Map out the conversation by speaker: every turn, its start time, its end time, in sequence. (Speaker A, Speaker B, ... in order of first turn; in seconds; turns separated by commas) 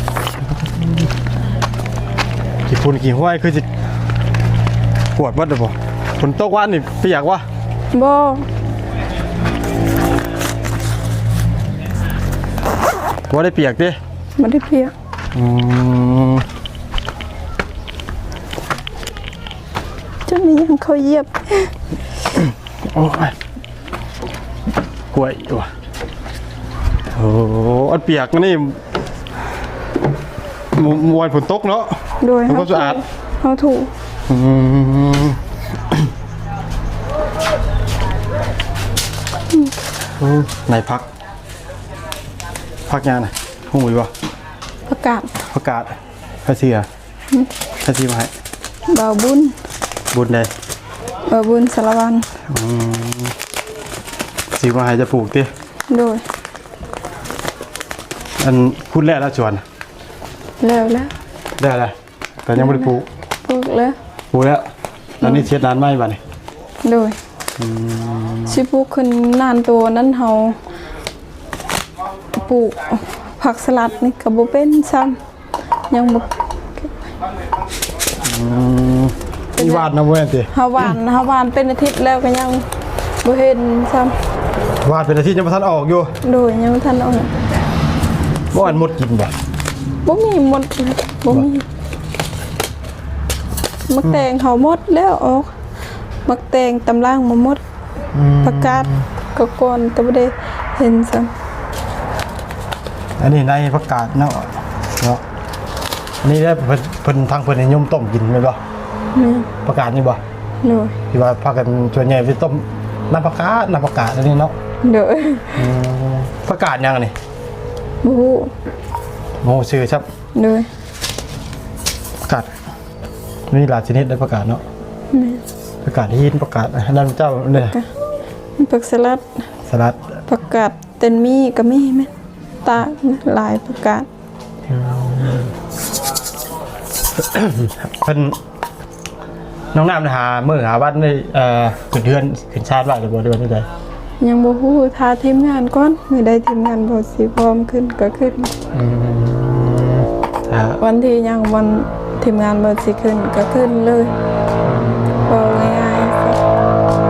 Speaker A: 0.4-1.1, Speaker A: 2.6-3.7, Speaker A: 5.1-7.4, Speaker B: 7.9-8.5, Speaker A: 13.3-14.0, Speaker B: 14.4-14.9, Speaker A: 15.3-16.4, Speaker B: 20.2-21.7, Speaker A: 22.3-23.4, Speaker A: 25.1-25.7, Speaker A: 27.1-28.8, Speaker A: 30.7-33.0, Speaker B: 32.2-33.9, Speaker A: 34.3-36.1, Speaker A: 40.2-41.1, Speaker A: 42.9-44.1, Speaker B: 44.9-45.3, Speaker A: 45.5-46.9, Speaker A: 47.8-48.3, Speaker B: 48.9-49.5, Speaker A: 50.1-50.5, Speaker B: 51.3-52.3, Speaker A: 52.4-53.3, Speaker A: 54.5-55.5, Speaker B: 55.9-56.2, Speaker A: 58.4-59.6, Speaker B: 60.6-61.1, Speaker A: 61.6-63.1, Speaker B: 62.5-64.0, Speaker A: 64.3-64.6, Speaker A: 65.2-66.2, Speaker B: 65.2-65.5, Speaker B: 66.8-67.2, Speaker A: 67.6-68.6, Speaker B: 68.5-70.6, Speaker B: 72.3-75.2, Speaker B: 75.9-77.0, Speaker A: 78.2-80.9, Speaker B: 79.6-79.9, Speaker B: 80.5-82.7, Speaker B: 83.2-84.2, Speaker A: 84.8-86.2, Speaker B: 86.2-87.3, Speaker A: 88.5-89.3, Speaker B: 90.0-91.6, Speaker B: 93.9-95.5, Speaker B: 96.2-97.6, Speaker A: 98.1-99.0, Speaker B: 98.4-101.3, Speaker A: 103.2-105.2, Speaker A: 106.2-108.6, Speaker B: 109.1-109.5, Speaker A: 109.6-110.2, Speaker B: 110.6-111.0, Speaker A: 111.1-114.5, Speaker B: 114.8-115.6, Speaker A: 115.5-117.1, Speaker B: 118.0-118.5, Speaker A: 119.4-120.1, Speaker B: 120.3-120.7, Speaker A: 122.2-122.5, Speaker A: 123.5-124.6, Speaker B: 125.1-125.4, Speaker A: 125.8-127.8, Speaker B: 127.5-127.9, Speaker B: 128.6-129.4, Speaker A: 129.7-130.2, Speaker B: 130.3-132.1, Speaker B: 132.6-134.1, Speaker A: 134.7-135.5, Speaker A: 137.1-138.4, Speaker A: 139.7-143.7, Speaker B: 144.2-148.5, Speaker A: 148.7-150.8, Speaker B: 150.8-154.1, Speaker A: 154.6-155.7, Speaker B: 155.3-156.4